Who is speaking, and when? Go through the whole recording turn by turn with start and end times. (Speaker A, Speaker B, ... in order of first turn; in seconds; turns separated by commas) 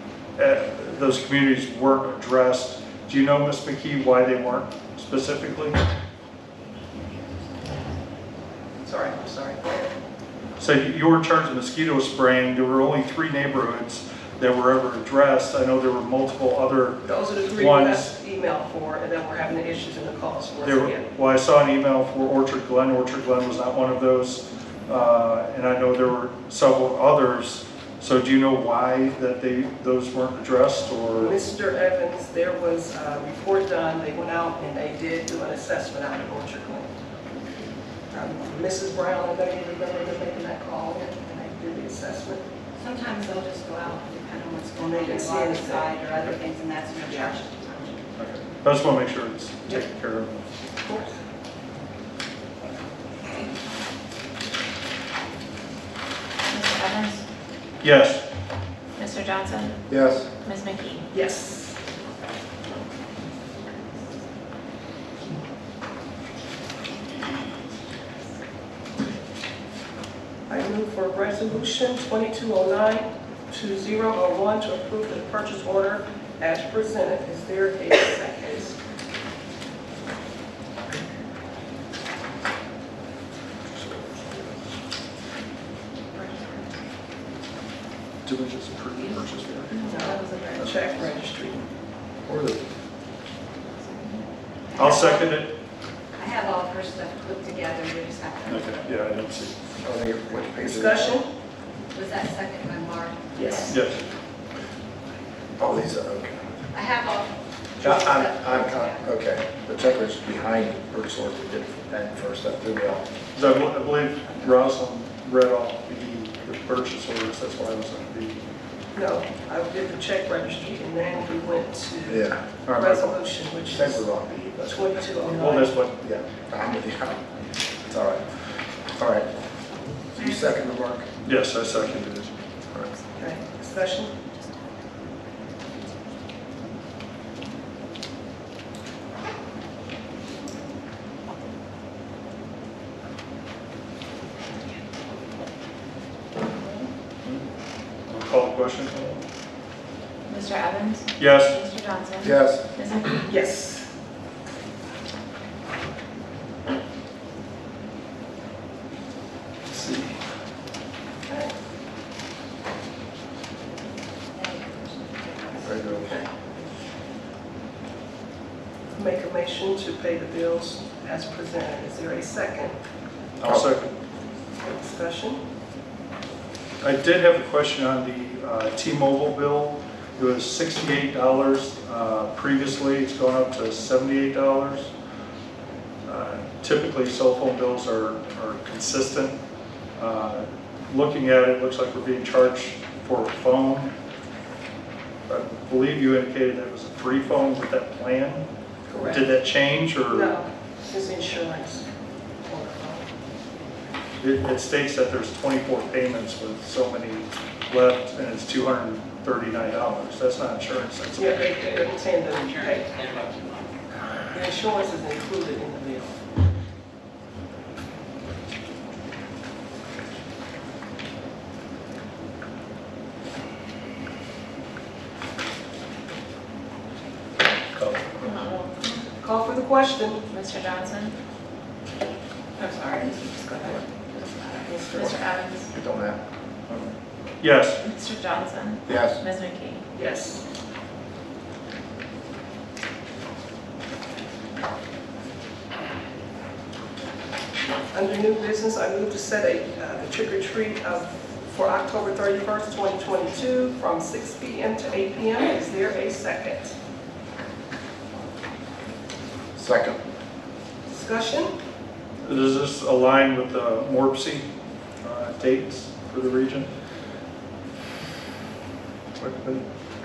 Speaker A: 0.4-5.8, Speaker B: 8.8-9.9, Speaker A: 10.6-18.1, Speaker B: 17.1-21.1, Speaker A: 20.6-31.4, Speaker B: 31.2-36.9, Speaker B: 38.1-42.4, Speaker C: 42.8-48.0, Speaker B: 44.8-46.0, Speaker B: 47.1-47.4, Speaker A: 48.2-50.5, Speaker B: 50.8-51.1, Speaker D: 56.5-57.2, Speaker A: 57.8-58.3, Speaker D: 59.0-59.8, Speaker E: 59.9-60.3, Speaker D: 60.4-61.1, Speaker B: 61.1-61.8, Speaker B: 70.5-78.8, Speaker A: 88.2-89.9, Speaker C: 89.8-91.1, Speaker B: 89.8-91.7, Speaker D: 93.9-94.2, Speaker C: 94.7-95.3, Speaker A: 94.8-95.6, Speaker C: 96.1-99.0, Speaker A: 98.5-99.5, Speaker E: 99.8-101.2, Speaker B: 100.6-101.3, Speaker C: 101.9-103.8, Speaker B: 103.3-103.8, Speaker A: 103.7-104.0, Speaker E: 105.6-106.7, Speaker C: 106.7-109.1, Speaker E: 107.8-113.1, Speaker A: 113.3-118.4, Speaker B: 118.9-124.0, Speaker E: 122.1-122.5, Speaker A: 122.6-123.1, Speaker E: 123.7-125.0, Speaker B: 124.7-125.8, Speaker A: 125.3-126.0, Speaker E: 126.0-127.3, Speaker E: 127.8-128.3, Speaker E: 128.9-129.3, Speaker E: 130.1-131.1, Speaker A: 131.2-132.3, Speaker B: 133.1-134.1, Speaker A: 148.1-149.2, Speaker D: 150.3-153.2, Speaker A: 151.2-151.6, Speaker E: 152.2-152.6, Speaker B: 153.2-153.9, Speaker A: 159.7-160.1, Speaker B: 161.3-161.5, Speaker C: 164.3-166.2, Speaker E: 165.6-166.2, Speaker B: 165.9-166.3, Speaker B: 168.9-172.8, Speaker A: 173.4-173.9, Speaker B: 174.6-175.4, Speaker A: 176.8-184.9, Speaker A: 186.0-189.4, Speaker A: 189.9-193.9, Speaker A: 195.3-198.4, Speaker B: 198.9-199.3, Speaker A: 199.0-200.4, Speaker B: 200.1-201.8, Speaker B: 202.4-203.1, Speaker A: 204.2-211.4, Speaker B: 211.2-213.0, Speaker B: 214.3-216.2, Speaker A: 227.8-228.3, Speaker D: 228.2-229.1, Speaker B: 229.2-230.2, Speaker D: 230.3-231.2, Speaker C: 232.6-234.8, Speaker B: 234.6-235.2, Speaker D: 234.8-235.7, Speaker E: 234.9-236.2, Speaker A: 236.7-237.8, Speaker D: 237.8-239.8, Speaker E: 238.9-239.2, Speaker B: 239.9-240.4, Speaker B: 247.9-256.7, Speaker E: 259.5-260.0, Speaker B: 260.9-261.5, Speaker A: 262.2-264.5, Speaker A: 265.0-266.7, Speaker E: 269.2-269.7